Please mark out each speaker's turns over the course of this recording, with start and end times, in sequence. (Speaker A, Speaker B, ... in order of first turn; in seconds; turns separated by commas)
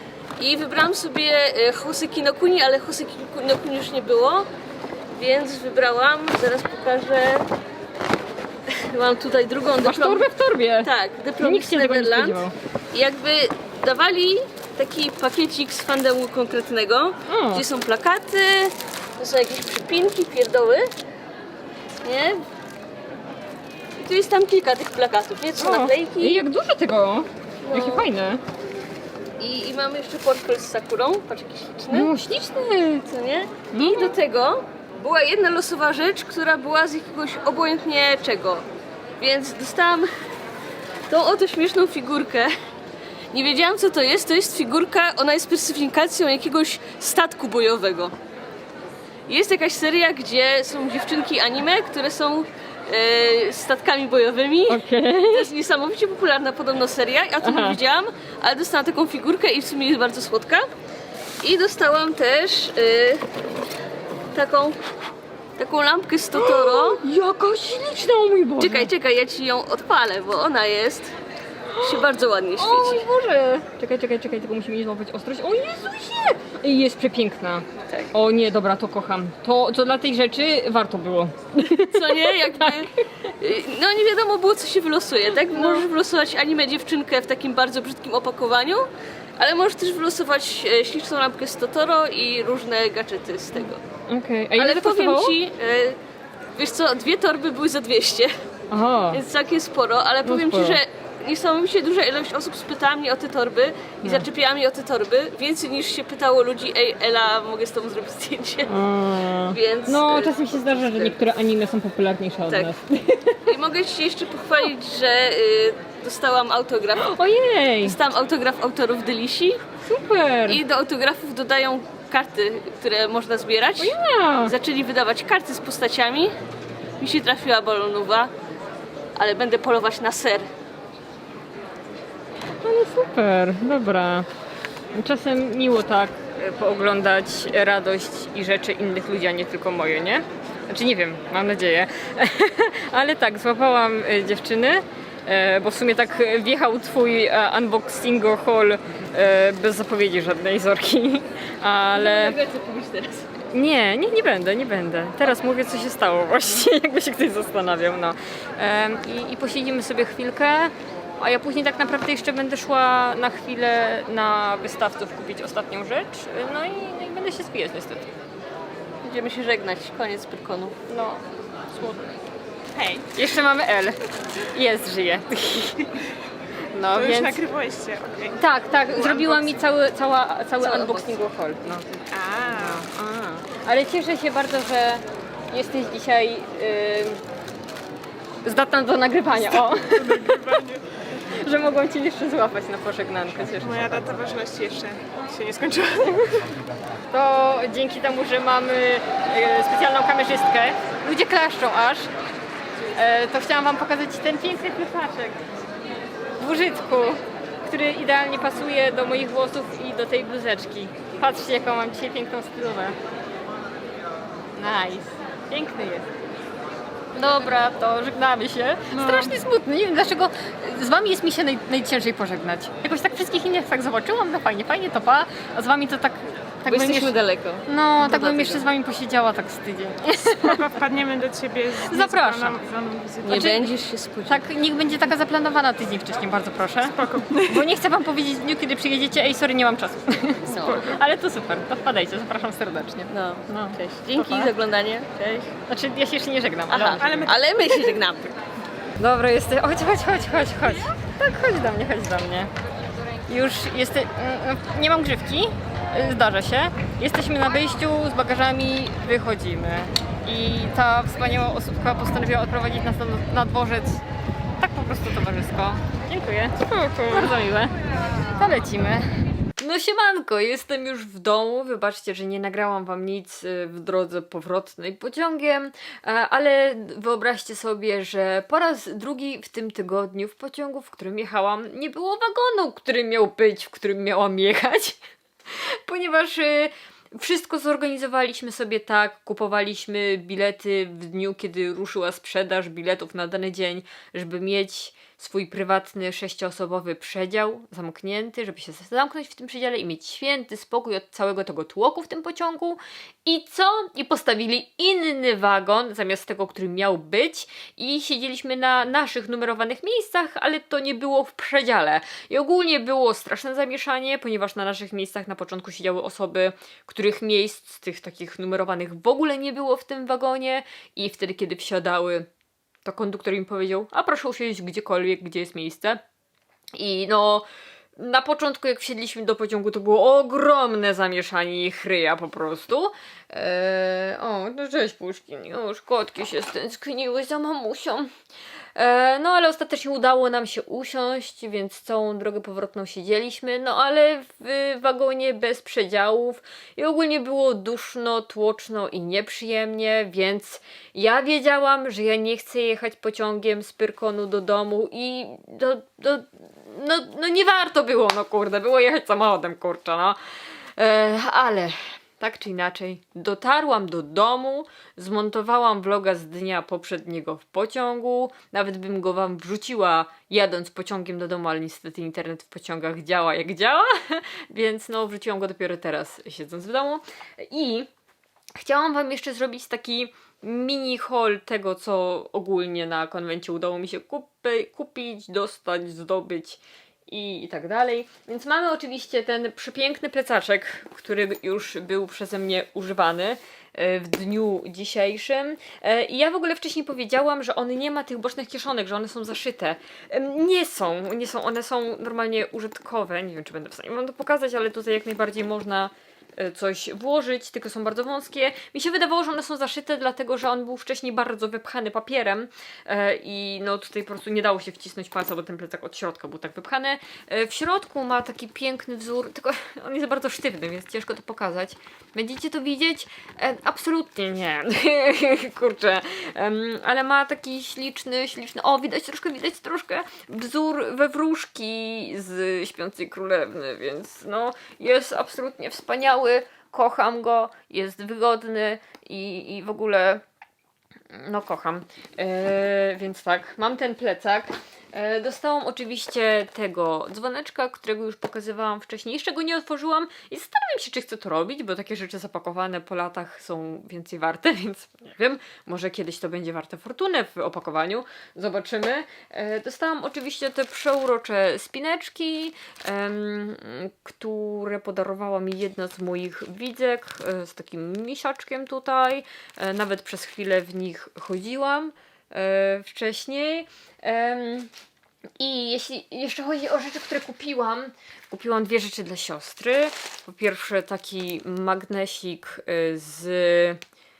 Speaker A: 0.4-4.5, Speaker A: 5.1-7.5, Speaker A: 8.7-10.3, Speaker B: 9.8-12.5, Speaker A: 10.8-20.9, Speaker B: 17.3-17.6, Speaker A: 22.0-22.4, Speaker A: 24.0-26.4, Speaker B: 25.6-28.4, Speaker A: 27.6-28.1, Speaker A: 29.4-32.1, Speaker B: 31.9-33.0, Speaker A: 33.1-38.6, Speaker B: 33.7-34.1, Speaker A: 39.2-40.1, Speaker A: 41.1-42.5, Speaker A: 43.3-48.1, Speaker A: 49.3-60.7, Speaker B: 54.7-55.5, Speaker B: 57.4-57.8, Speaker A: 61.4-63.3, Speaker A: 64.3-64.8, Speaker A: 65.6-67.0, Speaker B: 66.3-68.9, Speaker A: 68.6-71.1, Speaker B: 71.7-72.1, Speaker A: 71.8-73.1, Speaker B: 72.6-82.8, Speaker A: 81.8-88.8, Speaker B: 85.5-85.9, Speaker A: 89.4-93.8, Speaker B: 94.1-95.4, Speaker A: 94.6-96.0, Speaker A: 96.5-98.3, Speaker B: 98.7-99.2, Speaker A: 99.1-108.7, Speaker B: 100.2-100.8, Speaker B: 108.7-113.5, Speaker A: 109.5-111.2, Speaker A: 113.4-117.1, Speaker B: 117.0-118.0, Speaker A: 117.8-119.6, Speaker B: 119.8-120.6, Speaker A: 120.5-126.3, Speaker B: 123.8-124.5, Speaker A: 127.0-128.3, Speaker A: 129.2-130.5, Speaker B: 132.6-134.3, Speaker B: 134.9-152.4, Speaker A: 151.9-153.3, Speaker B: 153.5-168.1, Speaker A: 169.0-170.7, Speaker B: 170.9-171.2, Speaker C: 172.8-173.0, Speaker B: 173.1-175.9, Speaker B: 176.7-177.4, Speaker C: 177.0-178.3, Speaker B: 178.3-187.2, Speaker A: 180.6-181.1, Speaker B: 188.4-194.1, Speaker C: 194.1-195.1, Speaker B: 195.4-196.5, Speaker B: 197.1-202.1, Speaker B: 202.9-205.4, Speaker B: 206.4-212.9, Speaker B: 214.6-216.1, Speaker B: 217.1-227.1, Speaker A: 226.7-228.7, Speaker B: 227.7-230.7, Speaker C: 230.4-233.4, Speaker B: 231.8-232.7, Speaker A: 233.2-234.4, Speaker B: 233.3-233.7, Speaker B: 234.2-244.5, Speaker C: 237.0-237.4, Speaker A: 240.4-241.0, Speaker A: 243.1-245.3, Speaker B: 245.2-247.9, Speaker A: 246.7-248.3, Speaker B: 249.0-252.5, Speaker B: 253.2-264.0, Speaker B: 264.6-322.3, Speaker B: 322.8-326.0, Speaker B: 326.7-338.1, Speaker B: 338.7-360.2, Speaker B: 360.8-377.9, Speaker B: 378.6-440.2, Speaker B: 441.1-474.7, Speaker B: 475.4-483.8